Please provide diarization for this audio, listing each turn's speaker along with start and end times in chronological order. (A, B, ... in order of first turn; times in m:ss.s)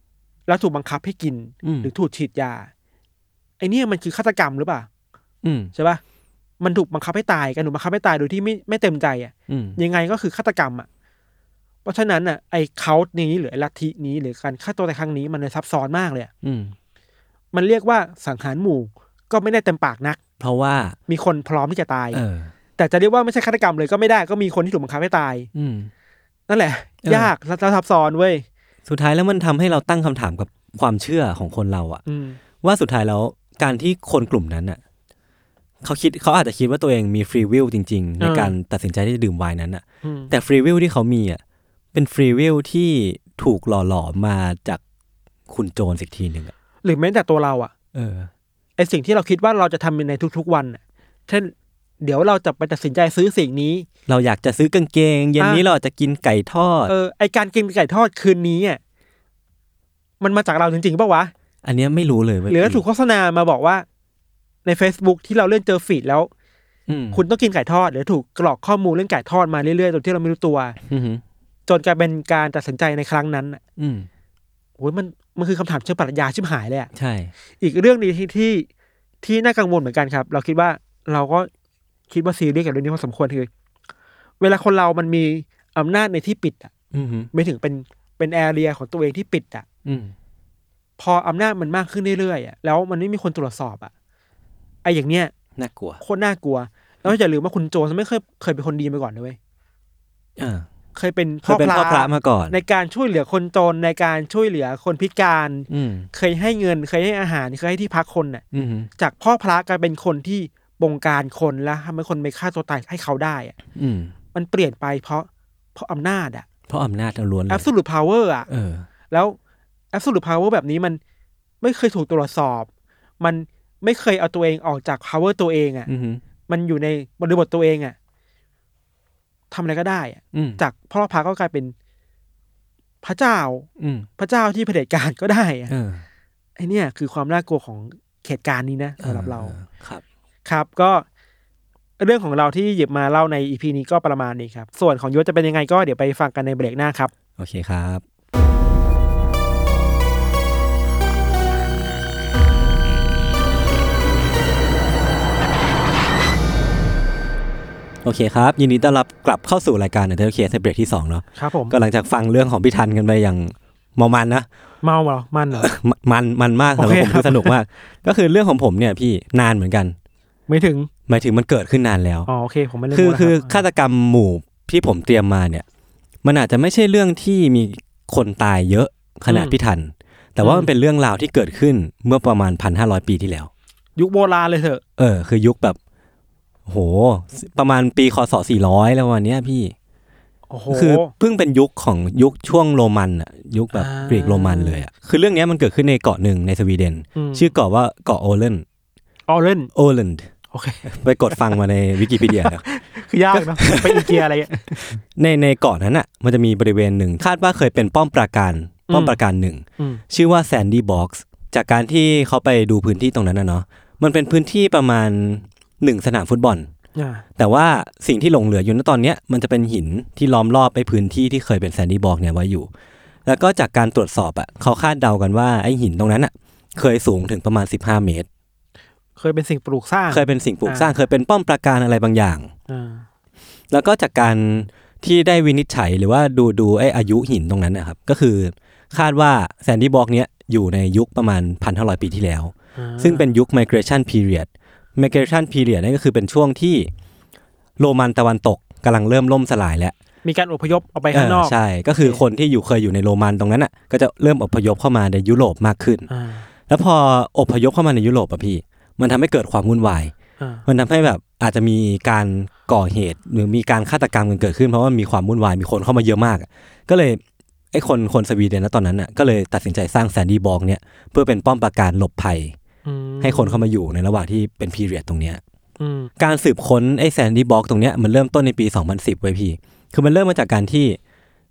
0:00.5-0:02.7 A
0:01.6-0:01.9 B
0:03.6-0:04.9 A
0:05.4-0:05.7 B
0:05.7-0:06.0 A
0:06.6-0:10.9 A
0:09.5-0:09.8 B
0:11.8-0:16.3 A
0:16.4-0:16.7 B
0:17.5-0:20.2 A
0:20.4-0:21.0 B
0:21.1-0:22.2 A
0:22.1-0:22.5 B
0:22.8-0:25.5 A
0:25.5-0:25.9 B
0:26.5-0:28.4 A
0:27.0-0:27.3 B
0:28.8-0:32.0 B
0:32.0-0:32.4 A
0:32.6-0:34.8 B
0:35.8-0:41.4 B
0:38.2-0:38.5 A
0:40.0-0:40.3 A
0:41.9-0:44.8 B
0:45.5-0:46.5 B
0:46.8-0:47.7 A
0:47.9-0:48.3 B
0:48.8-0:53.9 A
0:54.1-0:56.9 B
0:55.4-0:55.6 A
0:56.9-0:58.8 A
1:00.2-1:01.3 A
1:01.6-1:02.8 B
1:02.5-1:03.8 A
1:04.6-1:06.3 A
1:06.9-1:07.2 B
1:07.1-1:10.8 A
1:10.9-1:11.2 B
1:11.7-1:13.6 A
1:13.8-1:14.1 B
1:14.8-1:16.9 A
1:16.9-1:17.3 B
1:17.6-1:18.7 A
1:19.2-1:21.5 A
1:22.1-1:23.5 A
1:24.4-1:26.7 A
1:26.9-1:27.3 B
1:27.3-1:29.6 A
1:29.8-1:30.1 B
1:31.0-1:33.9 A
1:34.8-1:35.3 A
1:35.6-1:36.0 B
1:36.0-1:39.4 A
1:40.4-1:40.7 B
1:40.9-1:48.4 A
1:41.4-1:42.6 B
1:45.7-1:46.1 B
1:48.5-1:48.9 B
1:49.0-1:53.6 A
1:53.7-1:54.1 B
1:54.3-1:56.4 A
1:56.7-1:57.7 B
1:57.5-1:58.5 A
1:58.5-1:58.9 B
1:59.1-1:59.4 A
1:59.9-2:01.0 A
2:01.6-2:02.7 A
2:03.2-2:05.9 A
2:05.9-2:06.2 B
2:06.5-2:08.0 A
2:09.5-2:11.7 A
2:10.3-2:10.6 B
2:13.0-2:13.7 A
2:13.8-2:14.1 B
2:14.2-2:15.7 A
2:15.7-2:16.0 B
2:16.6-2:19.5 A
2:19.0-2:20.0 B
2:20.4-2:21.0 A
2:22.0-2:27.1 A
2:27.4-2:28.0 B
2:38.0-2:44.5 B
2:41.4-2:41.8 A
2:44.8-2:45.7 A
2:45.5-2:49.9 B
2:46.8-2:47.5 A
2:50.5-2:50.9 A
2:51.1-2:52.3 B
2:52.3-2:53.6 A
2:52.9-2:55.6 B
2:56.2-3:03.5 B
2:59.3-2:59.6 A
3:00.4-3:00.7 A
3:04.0-3:04.8 A
3:05.0-3:05.8 B
3:06.7-3:09.7 B
3:10.5-3:11.1 A
3:10.7-3:18.6 B
3:13.7-3:14.8 A
3:17.2-3:17.5 A
3:19.3-3:19.7 A
3:19.7-3:20.3 B
3:20.5-3:21.5 A
3:20.8-3:22.6 B
3:22.1-3:24.9 A
3:23.3-3:36.7 B
3:28.9-3:29.2 A
3:37.0-3:37.2 A
3:37.4-3:42.7 B
3:43.2-3:48.3 B
3:49.2-3:50.9 A
3:50.1-3:52.5 B
3:52.7-3:53.0 A
3:53.7-4:06.9 B
4:02.8-4:03.3 A
4:07.8-4:09.9 B
4:10.2-4:12.2 A
4:11.1-4:16.1 B
4:16.1-4:16.5 A
4:16.7-4:20.1 B
4:20.4-4:20.6 A
4:20.7-4:27.2 B
4:27.7-4:32.6 B
4:32.8-4:33.6 A
4:33.2-4:35.4 B
4:35.8-4:36.1 A
4:36.2-4:41.0 B